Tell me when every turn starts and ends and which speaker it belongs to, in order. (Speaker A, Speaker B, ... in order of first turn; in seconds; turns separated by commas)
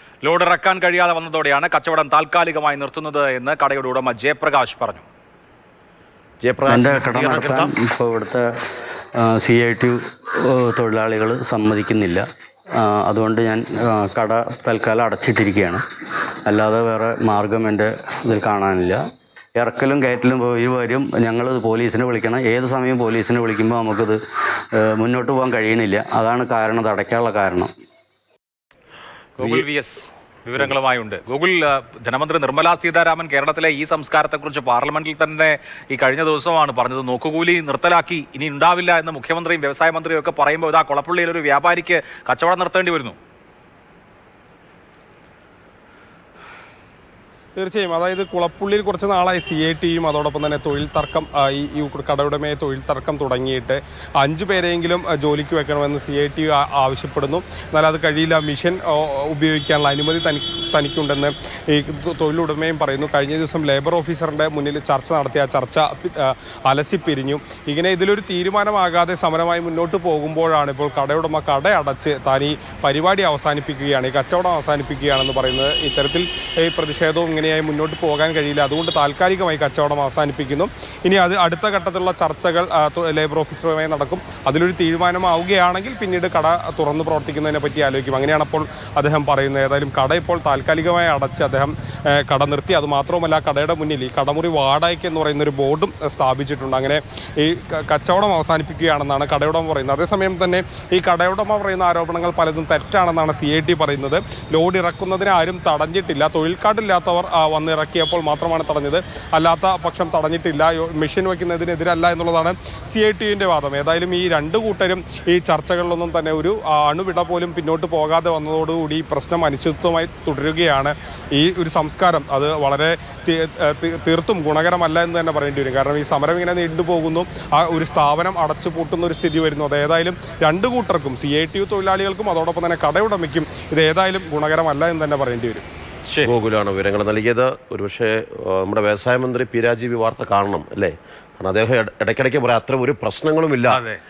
Speaker A: 0.2-5.0, Speaker B: 6.4-7.7, Speaker C: 6.7-8.5, Speaker C: 9.2-12.2, Speaker C: 12.8-15.8, Speaker C: 16.5-19.0, Speaker C: 19.6-24.2, Speaker C: 24.8-27.7, Speaker A: 29.4-43.2, Speaker D: 47.5-135.7, Speaker B: 136.2-143.8, Speaker A: 143.7-144.0